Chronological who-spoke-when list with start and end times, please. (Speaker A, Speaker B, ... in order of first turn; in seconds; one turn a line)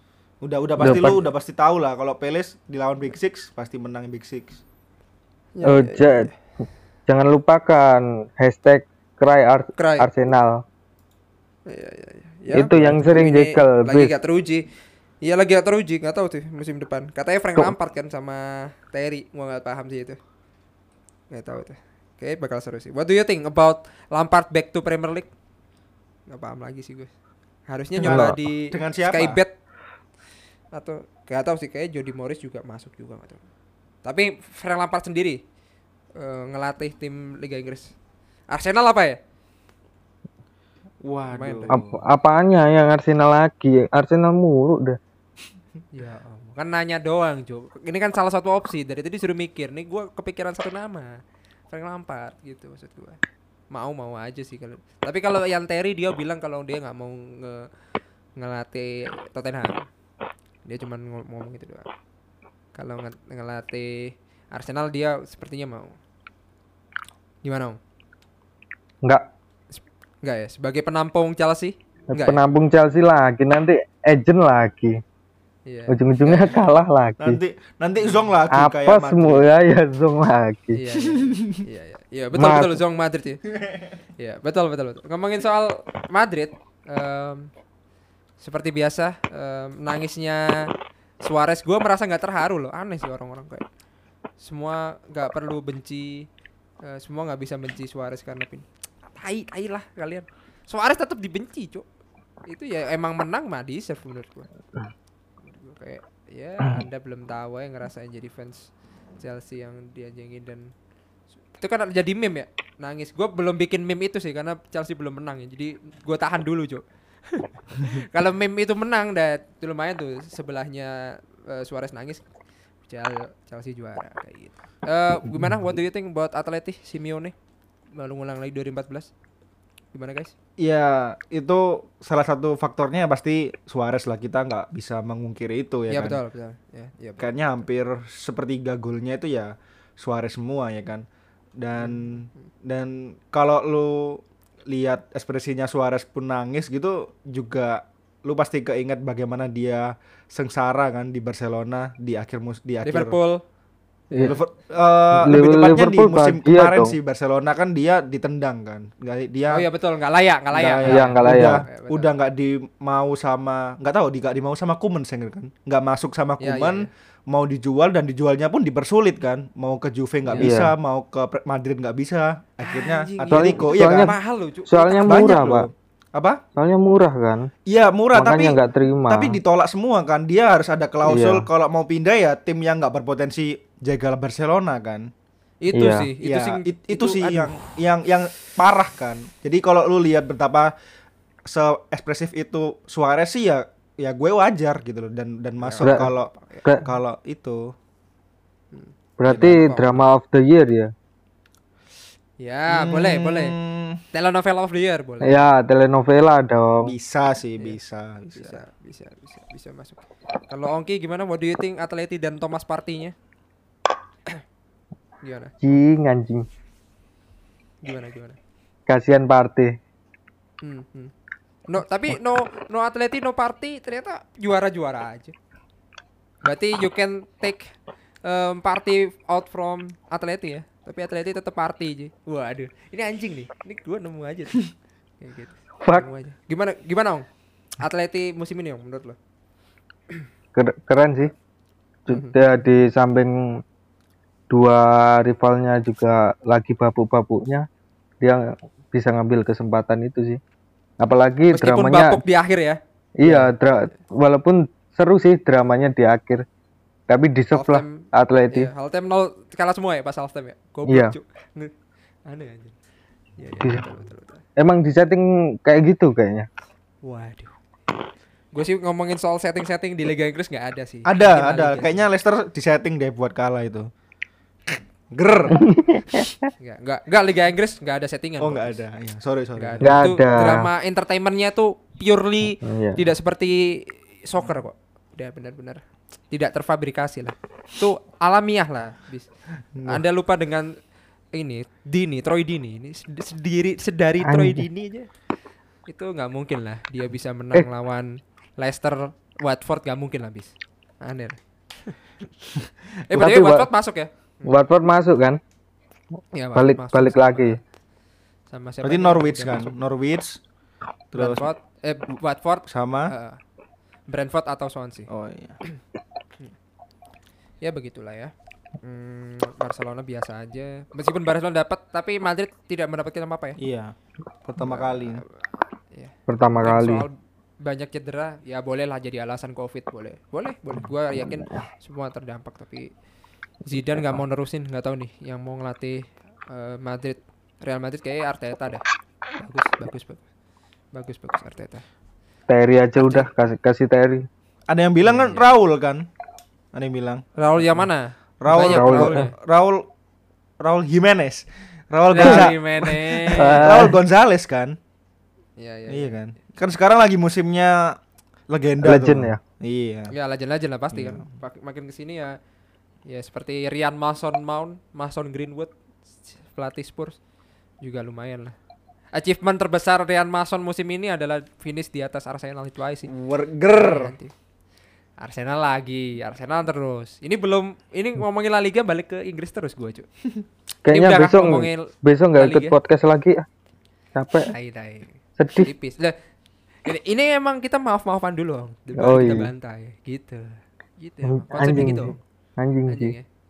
Speaker A: 0.4-4.6
Speaker B: 0.8-1.2
Speaker C: 0.8-1.2
Speaker C: 5.5-6.3
Speaker B: 5.6-6.3
Speaker B: 7.1-10.6
Speaker C: 9.8-10.1
Speaker C: 11.7-14.7
Speaker B: 12.5-14.1
Speaker C: 15.2-20.2
Speaker C: 21.3-25.3
Speaker C: 26.3-27.1
Speaker C: 27.7-29.5
Speaker A: 28.0-29.4
Speaker B: 28.0-28.4
Speaker C: 30.7-33.4
Speaker C: 34.0-35.4
Speaker C: 36.2-37.9
Speaker C: 38.5-39.2
Speaker A: 41.0-42.0
Speaker C: 41.3-41.8
Speaker B: 41.7-45.0
Speaker C: 45.9-51.2
Speaker C: 51.7-53.2
Speaker C: 53.7-57.7
Speaker C: 58.4-59.8
Speaker C: 60.6-61.9
Speaker C: 62.8-66.0
Speaker C: 67.4-67.8
Speaker C: 69.7-72.4
Speaker B: 72.1-75.0
Speaker C: 75.7-76.6
Speaker B: 75.9-77.4
Speaker A: 77.2-79.5
Speaker B: 78.5-80.8
Speaker C: 80.7-83.4
Speaker A: 81.1-81.6
Speaker B: 82.3-82.8
Speaker C: 84.2-87.5
Speaker C: 88.4-90.7
Speaker C: 91.2-93.7
Speaker C: 94.4-96.3
Speaker C: 96.8-101.8
Speaker C: 102.5-104.5
Speaker C: 105.5-110.7
Speaker C: 111.6-122.2
Speaker C: 122.9-127.3
Speaker C: 128.0-129.1
Speaker C: 129.9-130.3
Speaker A: 130.6-136.2
Speaker C: 135.9-137.3
Speaker A: 137.2-141.1
Speaker A: 141.6-153.2
Speaker C: 141.8-142.1
Speaker C: 152.8-153.4
Speaker C: 154.1-154.4
Speaker A: 154.2-159.7
Speaker B: 155.2-156.9
Speaker C: 159.5-162.1
Speaker A: 160.5-174.2
Speaker B: 160.8-161.6
Speaker C: 166.4-166.9
Speaker B: 170.4-170.7
Speaker C: 172.6-175.4
Speaker B: 173.3-174.2
Speaker B: 174.7-175.7
Speaker A: 175.1-176.4
Speaker B: 176.6-177.5
Speaker A: 177.7-185.1
Speaker B: 178.1-179.4
Speaker B: 181.1-181.5
Speaker C: 185.6-187.8
Speaker B: 185.8-186.1
Speaker A: 186.2-190.7
Speaker A: 191.5-197.7
Speaker C: 195.6-196.6
Speaker B: 195.8-196.1
Speaker C: 198.7-200.1
Speaker B: 199.2-200.9
Speaker A: 199.3-199.7
Speaker C: 202.4-203.6
Speaker A: 202.7-204.0
Speaker C: 204.1-205.4
Speaker B: 205.2-206.9
Speaker A: 206.8-208.6
Speaker C: 208.4-213.2
Speaker C: 215.2-215.6
Speaker B: 215.6-216.5
Speaker C: 217.8-218.4
Speaker B: 218.9-219.8
Speaker C: 220.6-221.1
Speaker C: 221.7-225.3
Speaker C: 226.4-234.7
Speaker C: 235.2-237.3
Speaker B: 235.8-236.1
Speaker C: 237.8-239.2
Speaker B: 240.6-241.3
Speaker B: 242.1-243.6
Speaker C: 242.1-242.4
Speaker B: 244.5-247.7
Speaker B: 248.2-250.4
Speaker B: 251.0-252.2
Speaker C: 251.5-254.0
Speaker B: 253.2-256.4
Speaker B: 257.1-258.7
Speaker C: 257.5-261.7
Speaker B: 260.9-261.2
Speaker C: 262.3-262.8
Speaker C: 263.4-264.4
Speaker B: 264.6-266.5
Speaker C: 267.0-267.6
Speaker C: 268.5-272.0
Speaker A: 271.1-273.9
Speaker A: 275.1-275.6
Speaker B: 275.6-276.3
Speaker C: 276.6-278.8
Speaker A: 278.4-279.9
Speaker C: 279.6-289.3
Speaker B: 279.8-280.7
Speaker B: 282.6-283.0
Speaker A: 289.8-290.0
Speaker C: 289.8-290.8
Speaker C: 291.3-295.1
Speaker B: 294.2-294.7
Speaker C: 295.9-302.0
Speaker C: 303.0-304.6
Speaker B: 303.1-303.7
Speaker B: 304.5-305.4
Speaker C: 306.3-307.6
Speaker B: 306.6-307.6
Speaker C: 308.5-309.7
Speaker A: 308.8-310.4
Speaker A: 311.1-311.5
Speaker C: 311.2-313.4
Speaker A: 312.7-313.1
Speaker C: 314.1-315.1
Speaker A: 315.1-315.6
Speaker C: 317.6-323.6
Speaker A: 323.6-323.9
Speaker A: 324.4-325.2
Speaker C: 324.6-325.2
Speaker C: 326.0-332.9
Speaker B: 326.3-327.1
Speaker C: 333.6-340.2
Speaker C: 340.9-341.8
Speaker B: 342.5-344.3
Speaker C: 343.0-343.3
Speaker A: 344.7-346.1
Speaker C: 345.1-345.5
Speaker A: 346.7-347.8
Speaker C: 347.4-349.3
Speaker A: 348.4-349.9
Speaker B: 348.5-349.2
Speaker A: 350.6-354.8
Speaker C: 352.1-353.9
Speaker B: 352.2-352.5
Speaker B: 353.3-354.0
Speaker C: 355.6-356.1
Speaker A: 355.9-358.0
Speaker A: 358.5-360.1
Speaker B: 358.8-359.4
Speaker C: 360.1-362.4
Speaker A: 360.9-361.3
Speaker C: 363.1-365.7
Speaker C: 366.4-367.2
Speaker C: 367.8-368.5
Speaker C: 369.1-373.1
Speaker A: 373.1-374.1
Speaker C: 373.7-374.4
Speaker C: 375.2-380.1
Speaker B: 380.9-383.4
Speaker C: 380.9-382.8
Speaker B: 384.1-384.5
Speaker C: 384.5-386.1
Speaker B: 385.4-385.7
Speaker C: 386.9-392.2
Speaker B: 389.0-389.5
Speaker B: 391.2-393.1
Speaker C: 392.9-393.2